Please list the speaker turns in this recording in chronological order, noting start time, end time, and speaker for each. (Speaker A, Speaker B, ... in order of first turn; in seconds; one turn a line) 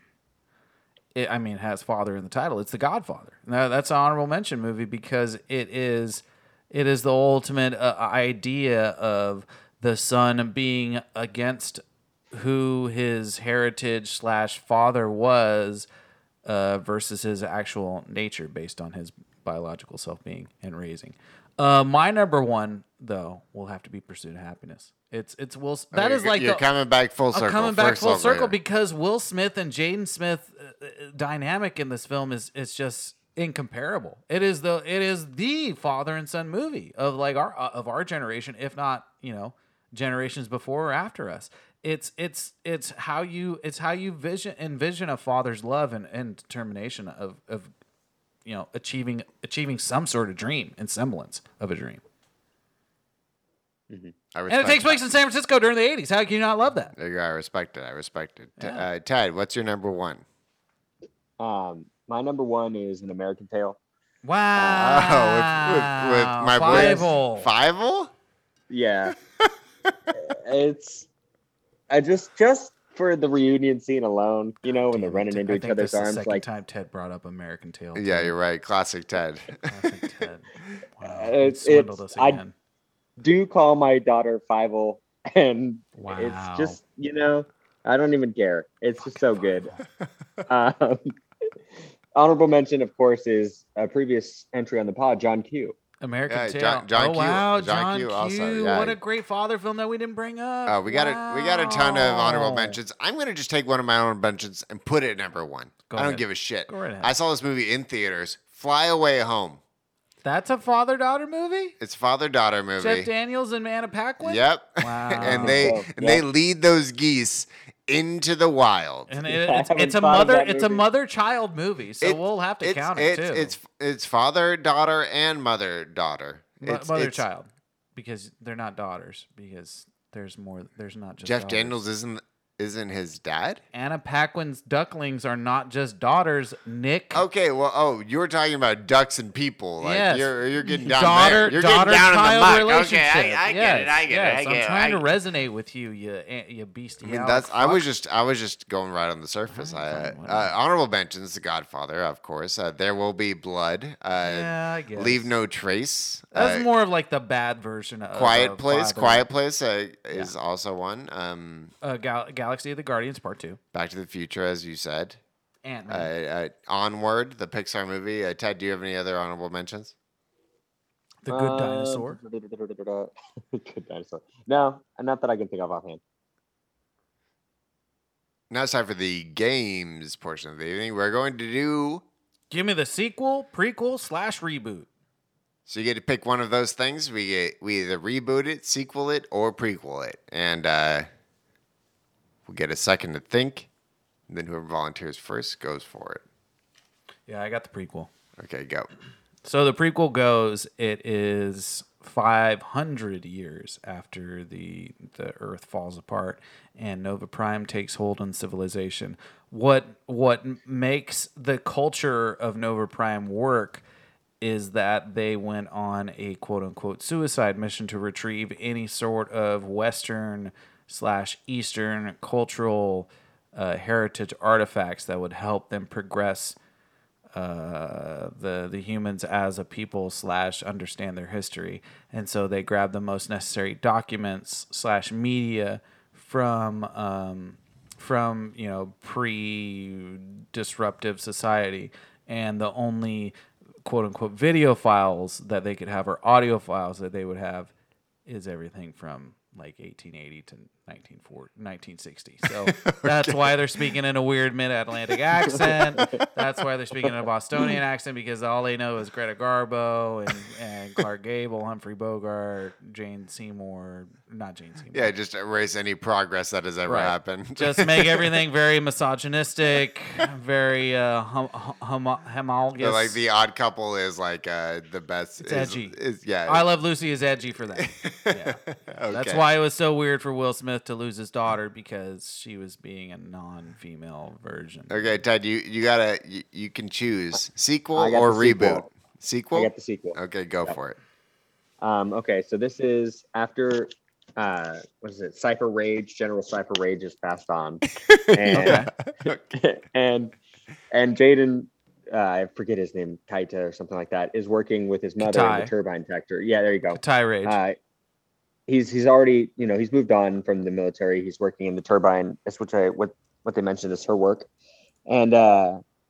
Speaker A: 1.1-15.9
Speaker A: 16.4-26.6
Speaker B: 25.9-28.6
Speaker A: 27.3-47.7
Speaker A: 48.5-52.0
Speaker B: 54.3-55.0
Speaker A: 54.5-56.9
Speaker B: 57.0-60.2
Speaker A: 58.6-58.9
Speaker C: 61.4-63.8
Speaker A: 64.2-67.5
Speaker C: 64.6-65.0
Speaker B: 64.8-68.1
Speaker C: 66.7-67.1
Speaker C: 68.7-69.2
Speaker B: 69.5-69.9
Speaker C: 70.2-71.1
Speaker C: 71.9-76.4
Speaker A: 74.7-78.3
Speaker B: 78.0-79.7
Speaker A: 79.7-82.5
Speaker C: 81.0-82.4
Speaker C: 83.2-89.7
Speaker A: 86.0-86.8
Speaker C: 90.5-91.1
Speaker C: 92.2-95.8
Speaker A: 96.0-102.8
Speaker B: 96.3-99.0
Speaker B: 100.7-109.6
Speaker A: 105.9-107.1
Speaker A: 110.2-111.8
Speaker B: 111.8-113.1
Speaker A: 112.8-115.8
Speaker B: 114.2-119.1
Speaker C: 115.2-116.2
Speaker A: 119.1-123.6
Speaker C: 119.3-120.8
Speaker B: 122.0-127.2
Speaker A: 126.6-131.8
Speaker B: 131.2-133.6
Speaker A: 133.7-137.2
Speaker B: 137.1-145.1
Speaker A: 139.8-147.8
Speaker B: 147.0-156.7
Speaker A: 149.5-150.5
Speaker A: 154.2-155.3
Speaker A: 156.3-159.3
Speaker B: 158.1-161.7
Speaker A: 161.8-163.6
Speaker B: 163.7-165.2
Speaker A: 165.7-166.1
Speaker B: 165.9-169.9
Speaker A: 171.2-172.2
Speaker C: 171.3-176.0
Speaker B: 178.5-182.0
Speaker A: 182.5-184.9
Speaker B: 185.7-191.1
Speaker B: 192.5-193.7
Speaker B: 194.3-196.2
Speaker A: 197.3-198.1
Speaker B: 198.4-198.9
Speaker A: 199.4-213.8
Speaker A: 214.4-226.6
Speaker A: 227.3-247.7
Speaker A: 248.3-265.1
Speaker B: 252.4-253.7
Speaker B: 264.9-268.4
Speaker A: 266.9-273.2
Speaker B: 272.8-276.7
Speaker A: 275.4-278.6
Speaker B: 277.8-279.4
Speaker A: 279.1-285.1
Speaker B: 284.9-291.0
Speaker C: 287.9-288.9
Speaker C: 289.5-290.8
Speaker C: 291.8-300.3
Speaker B: 298.1-299.3
Speaker A: 298.6-298.9
Speaker C: 300.9-307.8
Speaker A: 305.2-305.7
Speaker A: 306.9-307.6
Speaker C: 308.7-314.5
Speaker C: 315.1-315.8